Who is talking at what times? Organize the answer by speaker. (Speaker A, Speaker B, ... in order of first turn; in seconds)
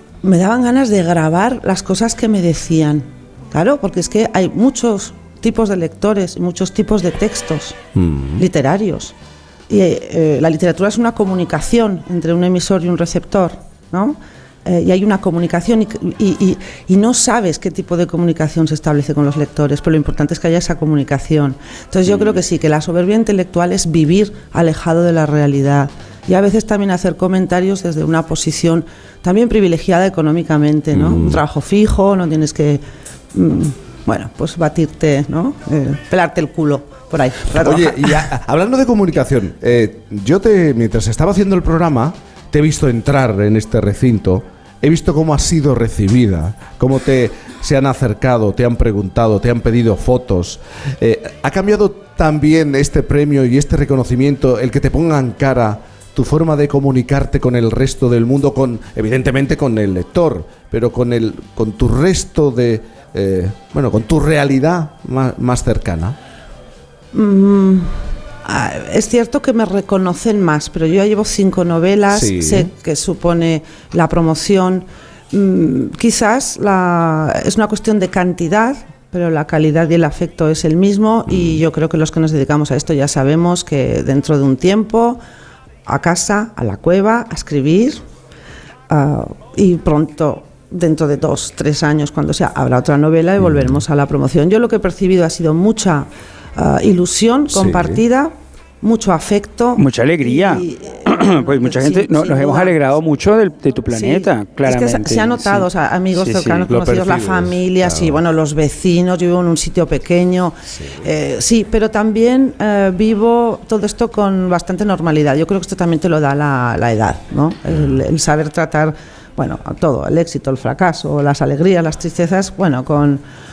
Speaker A: 0.2-7.8, 8.4-9.2, 9.7-32.8, 33.3-38.3, 67.1-85.2, 85.9-88.0, 88.9-102.8, 103.9-123.2
Speaker B: 8.0-8.4, 30.9-31.4, 37.6-66.2, 72.1-72.7, 81.3-81.5, 93.4-93.7, 97.5-98.0, 106.7-108.2
Speaker C: 99.8-106.7